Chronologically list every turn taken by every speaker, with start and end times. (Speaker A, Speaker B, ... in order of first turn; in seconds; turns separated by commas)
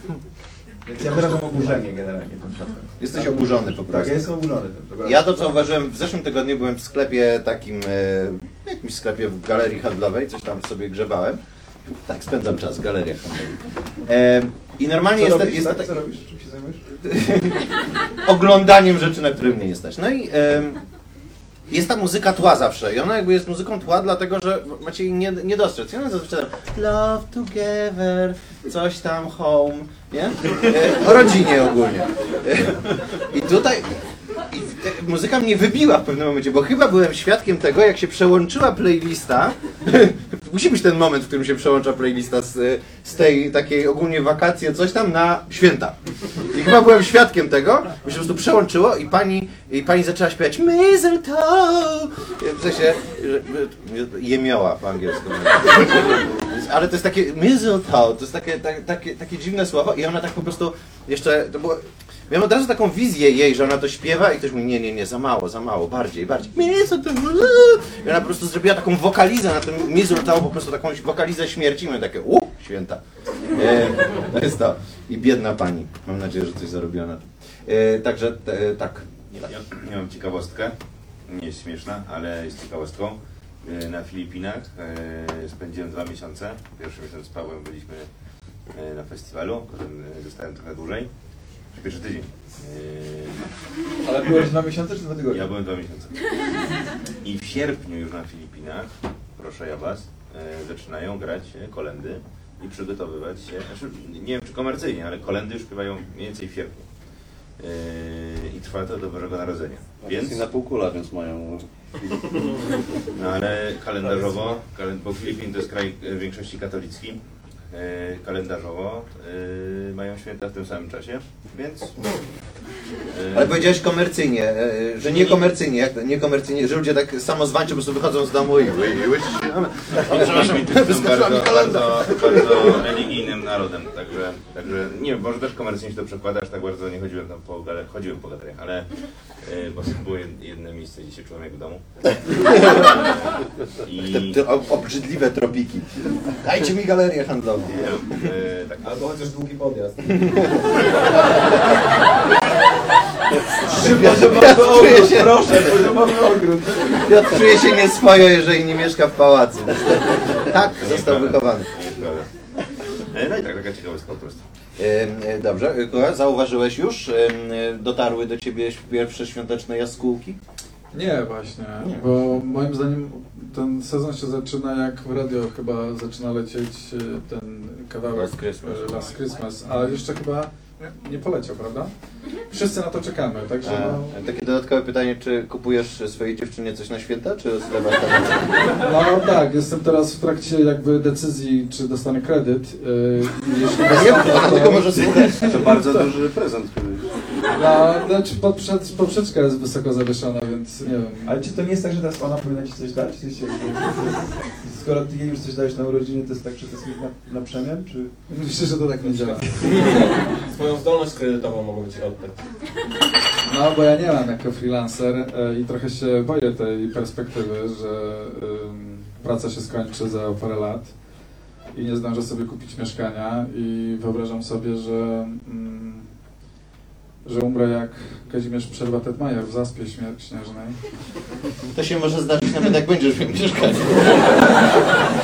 Speaker A: 0.9-5.3, Speaker B: 1.0-1.7, Speaker B: 3.0-4.3, Speaker B: 5.0-11.4, Speaker B: 12.1-15.9, Speaker A: 15.2-16.8, Speaker B: 17.0-20.8, Speaker B: 21.7-33.9, Speaker B: 34.5-46.0, Speaker B: 46.5-73.0, Speaker B: 73.5-79.5, Speaker C: 79.5-80.8, Speaker C: 81.3-88.1, Speaker C: 88.7-91.1, Speaker C: 91.7-93.4, Speaker A: 94.0-95.5, Speaker C: 94.3-94.5, Speaker C: 95.3-96.1, Speaker C: 97.2-106.8, Speaker C: 107.6-110.4, Speaker D: 110.0-112.4, Speaker E: 112.3-112.8, Speaker C: 113.1-117.2, Speaker C: 117.7-122.2, Speaker C: 123.1-123.7, Speaker B: 123.3-133.0, Speaker C: 125.0-125.5, Speaker C: 130.0-138.9, Speaker C: 139.4-141.8, Speaker B: 142.3-143.1, Speaker C: 142.6-144.4, Speaker B: 144.0-148.3, Speaker C: 147.7-149.0, Speaker E: 148.8-150.8, Speaker B: 153.6-155.9, Speaker A: 153.7-157.2, Speaker B: 156.9-161.7, Speaker C: 160.8-162.3, Speaker C: 163.0-164.4, Speaker B: 164.8-170.4, Speaker F: 170.9-181.9, Speaker B: 178.1-179.1, Speaker F: 182.5-184.1, Speaker B: 183.6-188.7, Speaker F: 188.8-196.1, Speaker B: 193.8-195.6, Speaker D: 195.2-197.1, Speaker F: 197.5-201.3, Speaker A: 201.2-208.2, Speaker F: 208.3-210.0, Speaker E: 209.5-212.5, Speaker F: 213.5-220.9, Speaker F: 221.7-226.1, Speaker F: 227.2-230.8, Speaker B: 231.8-234.6